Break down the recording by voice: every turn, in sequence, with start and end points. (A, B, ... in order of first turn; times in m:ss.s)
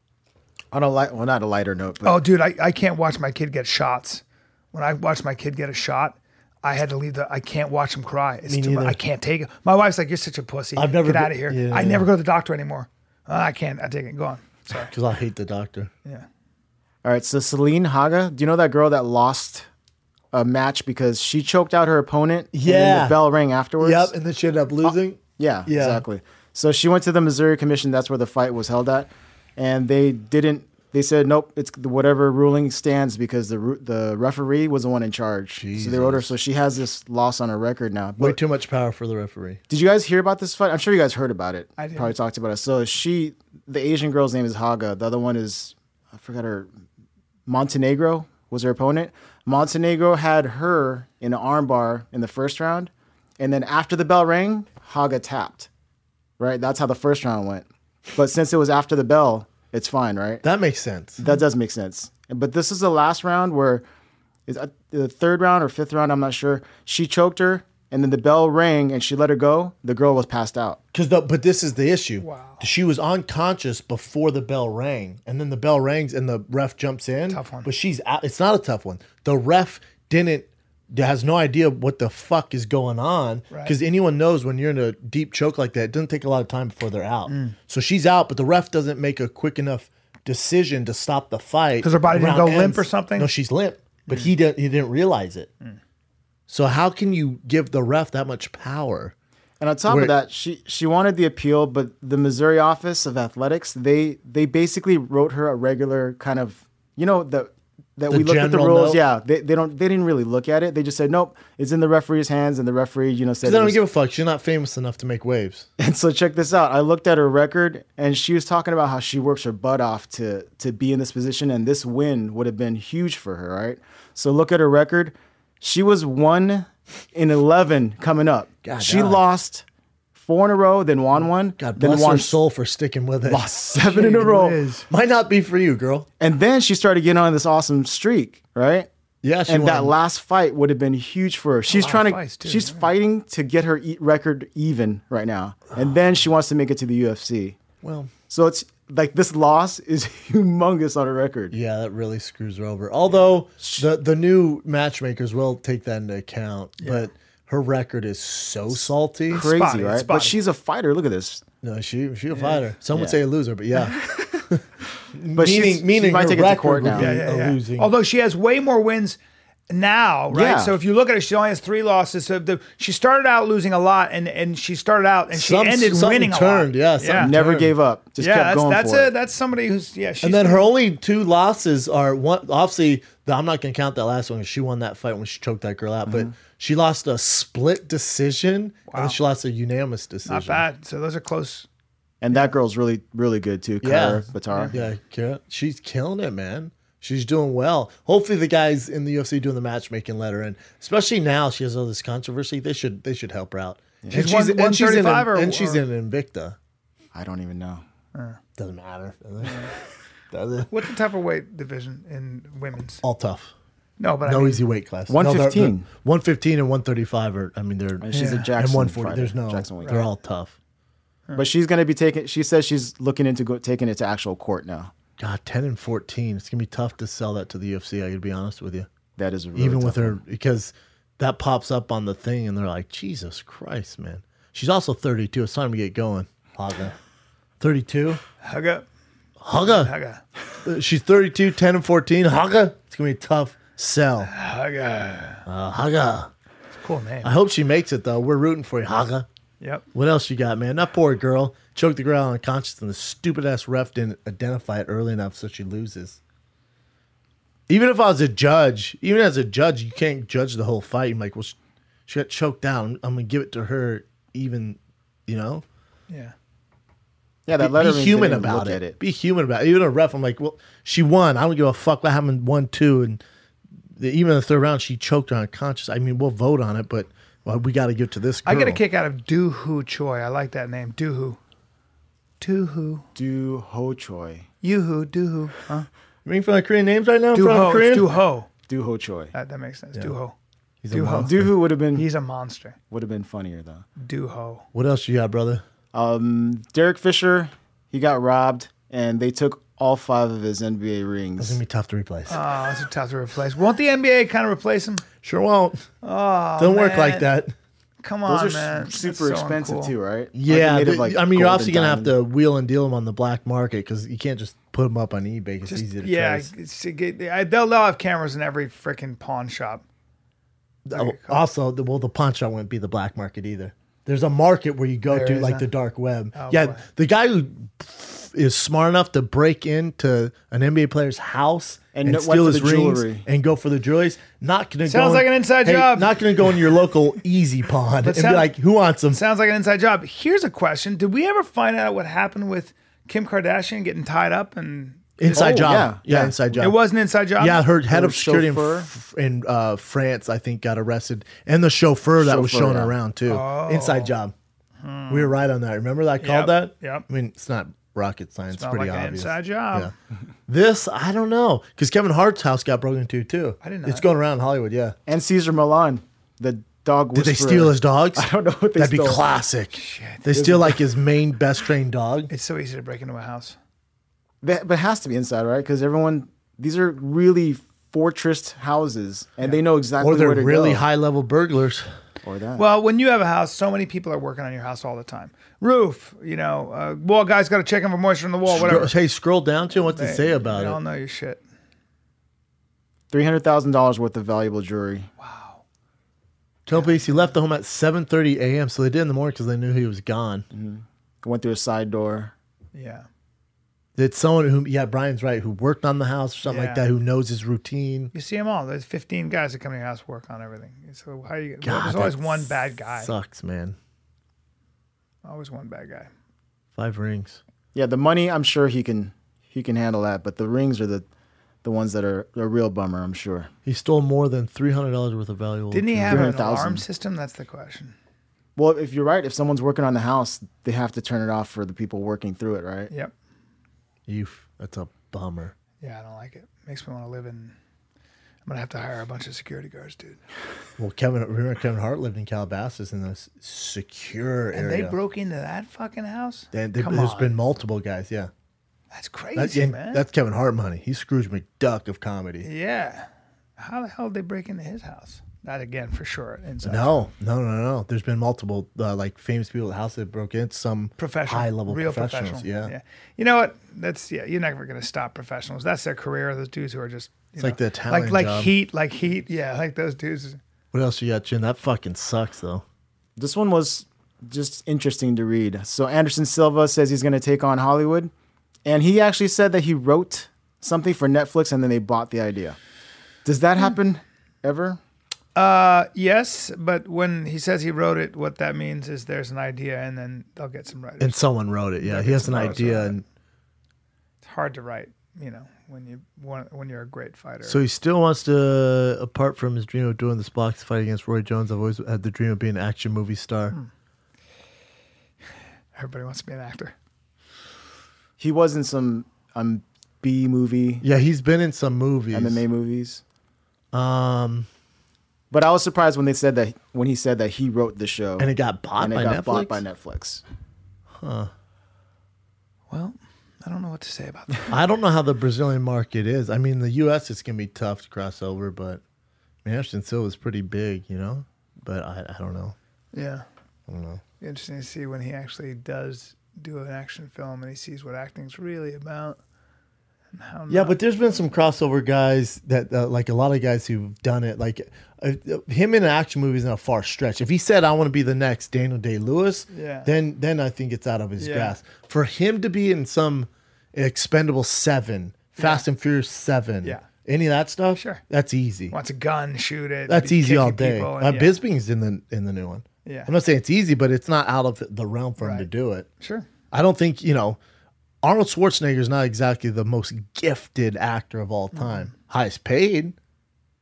0:00.7-0:02.2 A
0:02.0-0:14.9 B
0:08.4-0:09.0 C
0:10.8-0:12.1 C
0:14.8-0:15.9 C
0:17.0-0:19.7 A
0:20.3-0:24.1 A
0:22.5-0:23.2 C
0:23.8-0:26.0 C
0:24.8-0:38.4 A
0:35.6-0:36.3 C
0:38.2-0:39.6 C
0:39.7-0:46.7 A
0:41.8-0:42.1 B
0:47.4-0:55.7 A
0:56.4-1:00.4 A
1:00.4-1:01.2 C
1:01.2-1:03.8 A
1:04.5-1:10.8 A
1:10.9-1:35.5 C
1:12.2-1:12.6 B
1:17.3-1:17.7 B
1:27.3-1:27.6 B
1:31.8-1:33.3 B
1:34.1-1:34.3 B
1:36.5-1:39.1 C
1:39.6-1:53.8 A
1:39.9-1:40.1 C
1:48.1-1:49.0 C
1:53.4-1:55.7 C
1:55.8-2:12.4 A
2:08.6-2:09.2 C
2:11.6-2:13.5 C
2:13.2-2:14.6 A
2:13.8-2:14.9 B
2:14.9-2:16.1 C
2:16.2-2:18.9 A
2:19.2-2:19.9 C
2:19.5-2:27.6 A
2:21.7-2:22.9 B
2:27.8-2:28.1 C
2:28.3-2:31.6 A
2:31.5-2:39.5 C
2:33.6-2:33.8 A
2:36.8-2:37.1 B
2:39.3-2:41.4 A
2:39.3-2:40.4 B
2:41.6-2:47.9 C
2:42.9-2:43.2 A
2:45.3-2:47.1 A
2:46.9-2:49.2 B
2:49.7-2:57.3 B
2:50.3-2:50.8 A
2:55.3-2:57.7 C
2:57.1-2:59.1 A
2:58.2-3:00.6 B
3:00.2-3:10.6 C
3:08.9-3:09.2 B
3:10.2-3:11.7 B
3:12.2-3:14.9 A
3:13.8-3:26.6 C
3:14.5-3:14.7 B
3:24.1-3:25.8 B
3:27.1-3:27.8 A
3:28.6-3:29.7 C
3:29.4-3:29.7 B
3:30.3-3:30.7 C
3:30.7-3:33.0 B
3:33.0-3:33.5 C
3:34.0-3:34.6 B
3:34.2-3:40.5 C
3:35.1-3:35.9 A
3:38.0-3:40.0 A
3:38.1-3:38.5 B
3:39.8-3:40.1 B
3:41.3-3:44.9 A
3:45.2-3:48.9 C
3:49.2-3:50.2 A
3:49.6-3:56.9 C
3:57.6-3:58.2 C
3:58.4-3:58.8 B
3:59.4-3:59.9 C
3:59.6-4:00.2 B
4:00.6-4:04.3 C
4:04.2-4:05.4 B
4:05.4-4:06.3 C
4:06.7-4:07.3 B
4:07.2-4:09.3 C
4:09.9-4:16.2 C
4:17.7-4:21.6 C
4:22.1-4:25.6 C
4:26.1-4:26.3 B
4:27.4-4:29.0 A
4:27.6-4:33.2 C
4:34.0-4:38.8 C
4:38.4-4:41.4 B
4:42.4-4:43.0 B
4:43.1-4:44.5 A
4:44.6-4:45.9 B
4:46.2-4:48.1 C
4:47.3-4:48.5 B
4:48.7-4:49.3 A
4:49.3-4:50.3 B
4:50.8-4:51.5 C
4:50.9-4:51.3 B
4:51.0-4:52.0 A
4:51.9-4:52.8 B
4:52.9-4:53.8 A
4:54.0-4:54.6 B
4:54.7-4:55.6 C
4:55.9-5:01.6 A
5:01.4-5:02.4 C
5:02.3-5:05.0 B
5:05.2-5:05.9 C
5:06.0-5:07.3 B
5:06.6-5:07.5 C
5:08.0-5:09.9 B
5:08.3-5:12.1 A
5:10.3-5:16.5 C
5:15.6-5:19.8 B
5:20.8-5:39.2 C
5:20.9-5:21.4 B
5:25.1-5:25.6 B
5:26.3-5:26.8 B
5:31.9-5:33.2 A
5:34.8-5:36.2 B
5:38.0-5:38.5 B
5:39.1-5:45.0 B
5:45.2-5:46.8 C
5:45.3-5:46.6 A
5:46.6-5:47.6 B
5:47.4-5:54.3 C
5:47.9-5:48.9 A
5:52.2-5:52.9 A
5:53.3-5:54.1 B
5:54.8-5:55.3 B
5:55.1-5:59.9 C
5:56.2-5:57.0 B
5:58.5-5:59.9 B
6:00.5-6:05.0 C
6:03.6-6:04.0 B
6:05.1-6:09.2 A
6:07.1-6:12.3 C
6:09.7-6:10.3 B
6:10.3-6:10.7 A
6:12.3-6:13.6 B
6:14.4-6:20.8 A
6:20.0-6:21.8 C
6:22.2-6:22.6 A
6:22.6-6:28.9 B
6:28.5-6:30.8 C
6:29.8-6:31.4 B
6:33.1-6:35.1 A
6:35.2-6:35.6 B
6:36.6-6:40.4 C
6:36.7-6:37.3 B
6:40.5-6:42.3 A
6:42.7-6:43.0 B
6:44.0-6:48.1 C
6:46.4-6:46.8 B
6:48.1-6:53.1 B
6:51.6-6:53.8 C
6:55.2-6:56.1 B
6:56.8-6:57.4 C
6:57.7-7:01.0 A
7:01.6-7:03.5 A
7:03.6-7:06.4 C
7:05.7-7:07.9 B
7:06.1-7:06.8 A
7:08.6-7:12.9 A
7:14.1-7:15.5 C
7:15.8-7:17.5 B
7:18.4-7:20.2 B
7:20.8-7:25.0 C
7:24.5-7:27.4 B
7:26.5-7:28.3 C
7:28.9-7:30.0 B
7:29.4-7:32.5 C
7:32.4-7:37.1 B
7:36.6-7:42.7 C
7:41.0-7:50.4 B
7:47.4-7:48.5 C
7:50.7-7:52.6 C
7:53.2-7:58.1 A
7:58.6-8:02.6 A
8:03.2-8:04.8 A
8:05.4-8:11.2 B
8:11.0-8:13.0 C
8:11.8-8:12.9 B
8:14.2-8:17.6 B
8:17.4-8:23.6 C
8:25.7-8:26.7 B
8:28.2-8:30.8 A
8:30.8-8:32.4 C
8:32.1-8:33.0 A
8:33.7-8:34.5 C
8:35.3-8:40.2 A
8:38.2-8:39.6 C
8:41.0-8:41.3 C
8:42.7-8:44.6 B
8:44.5-8:48.8 C
8:49.4-8:52.6 C
8:52.9-8:53.2 B
8:53.7-8:54.0 C
8:54.2-8:59.2 B
9:00.1-9:00.8 B
9:00.5-9:18.7 C
9:09.5-9:09.9 B
9:11.2-9:11.6 B
9:15.4-9:15.6 B
9:17.7-9:18.0 B
9:18.7-9:21.4 B
9:19.9-9:25.9 C
9:22.8-9:23.1 B
9:25.2-9:25.5 B
9:26.0-9:26.3 B
9:26.5-9:27.4 C
9:28.0-9:32.9 C
9:31.5-9:31.9 B